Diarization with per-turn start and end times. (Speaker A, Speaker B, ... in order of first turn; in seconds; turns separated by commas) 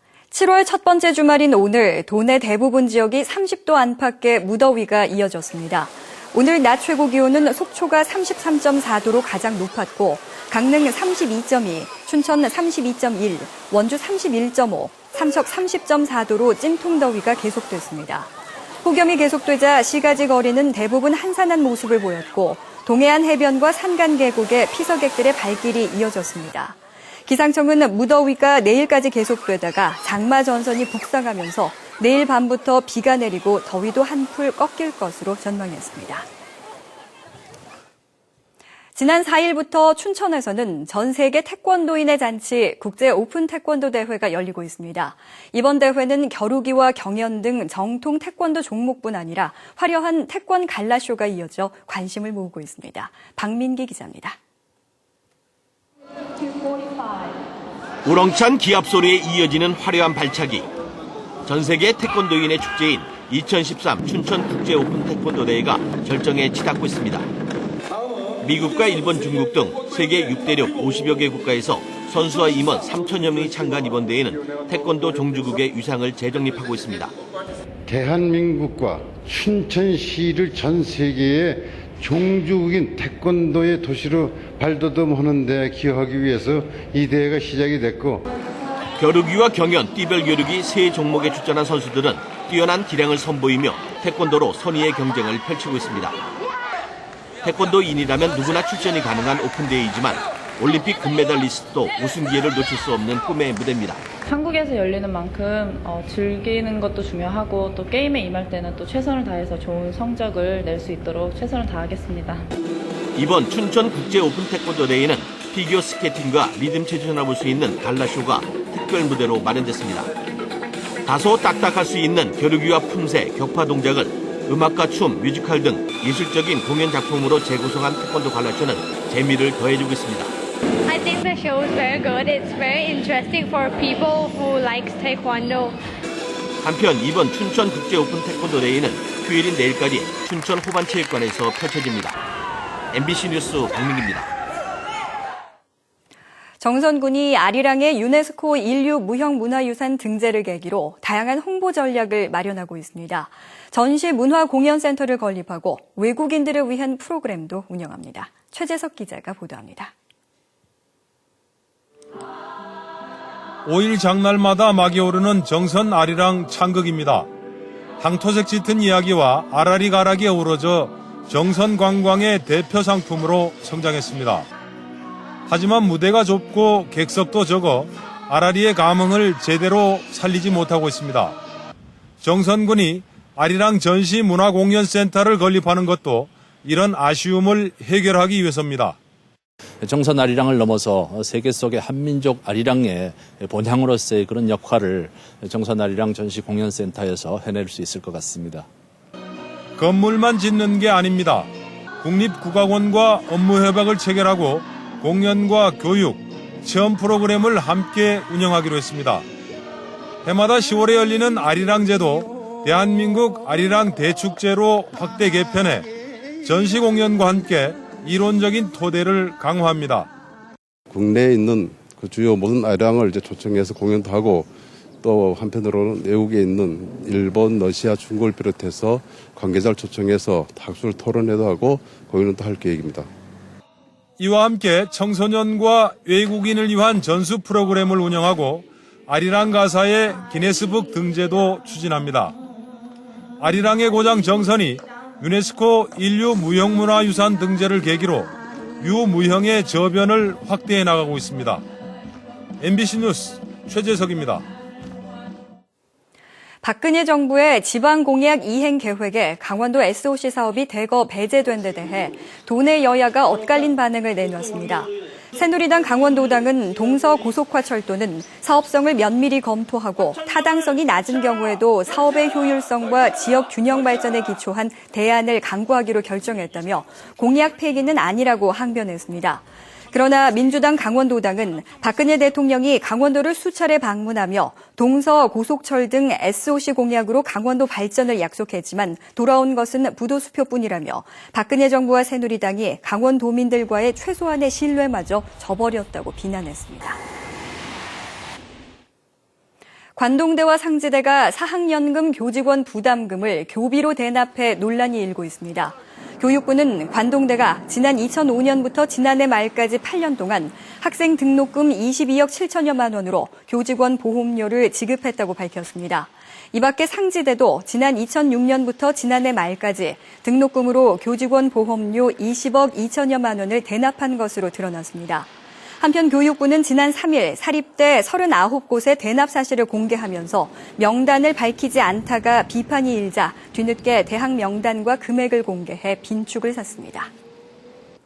Speaker A: 0.3-18.3, Speaker A: 18.8-36.3, Speaker A: 39.0-54.4, Speaker B: 58.0-60.7, Speaker B: 61.5-67.3, Speaker B: 68.4-77.1, Speaker C: 77.9-88.2, Speaker B: 89.0-96.2, Speaker B: 97.4-104.0, Speaker D: 104.2-112.5, Speaker B: 113.2-120.1, Speaker B: 121.0-130.3, Speaker E: 130.9-135.8, Speaker B: 136.6-142.2, Speaker B: 142.9-144.3, Speaker A: 146.6-159.9, Speaker F: 163.7-167.3, Speaker F: 168.0-174.5, Speaker F: 175.5-181.4, Speaker F: 182.2-189.0, Speaker G: 189.8-198.7, Speaker F: 199.8-201.5, Speaker F: 202.0-209.3, Speaker F: 210.2-215.9, Speaker F: 216.4-220.1, Speaker H: 220.9-224.5, Speaker H: 225.0-233.1, Speaker F: 234.2-242.4, Speaker F: 243.4-251.6, Speaker F: 252.6-254.4, Speaker A: 256.6-297.0, Speaker A: 300.0-325.3, Speaker A: 325.8-337.1